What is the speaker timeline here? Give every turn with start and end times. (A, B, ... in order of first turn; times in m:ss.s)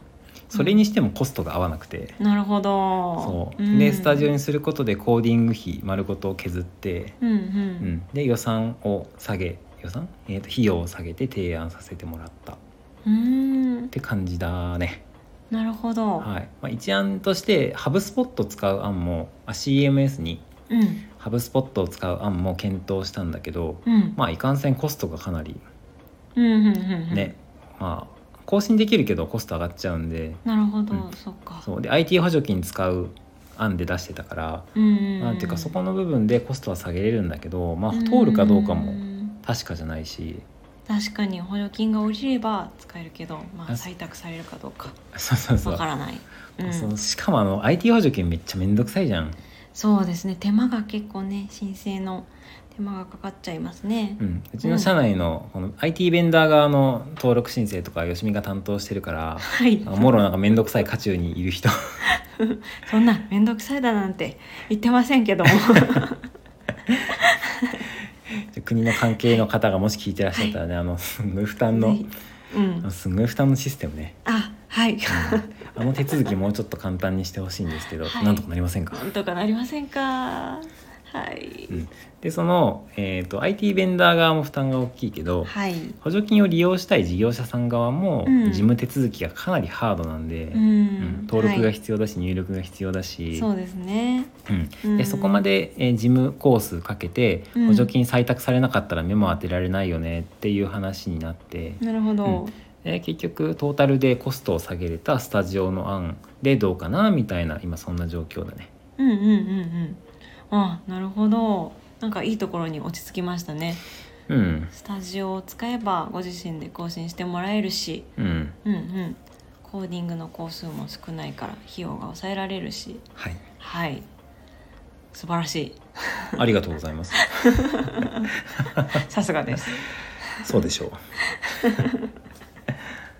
0:00.5-0:02.2 A
0:00.5-0:00.8 B
0:02.2-0:04.3 B
0:03.2-0:07.2 A
0:07.2-0:07.9 B
0:07.8-0:12.6 A
0:13.0-0:13.9 B
0:13.9-0:15.0 A
0:15.5-0:16.3 B
0:16.2-0:20.4 A
0:20.7-0:21.0 B
0:21.2-0:25.6 A
0:23.9-0:24.2 B
0:26.4-0:27.3 B
0:27.1-0:30.4 A
0:30.4-0:31.7 B
0:31.6-0:40.5 A
0:34.8-0:35.8 B
0:37.9-0:39.4 B
0:40.9-0:45.0 B
0:45.1-0:45.8 A
0:45.6-0:46.9 B
0:46.6-0:49.4 A
0:49.7-0:54.9 B
0:54.2-1:02.0 A
0:59.4-1:00.2 B
1:02.4-1:06.2 B
1:07.2-1:07.9 B
1:08.3-1:12.1 A
1:10.3-1:10.6 B
1:11.7-1:12.9 B
1:12.8-1:14.2 A
1:14.2-1:16.3 B
1:15.1-1:19.0 A
1:18.0-1:21.8 B
1:21.7-1:33.5 A
1:25.4-1:26.0 B
1:28.2-1:28.7 B
1:30.5-1:31.7 B
1:33.3-1:34.3 B
1:34.5-1:48.7 A
1:34.8-1:35.5 B
1:37.6-1:37.9 B
1:41.8-1:42.6 B
1:49.0-1:53.8 B
1:54.3-1:54.7 A
1:54.7-1:58.1 B
1:58.2-1:58.6 A
1:58.6-2:03.0 B
2:03.6-2:04.1 B
2:05.1-2:06.4 B
2:06.4-2:07.5 A
2:07.2-2:08.3 B
2:08.8-2:09.0 A
2:08.9-2:10.6 B
2:10.4-2:11.0 A
2:11.4-2:12.1 B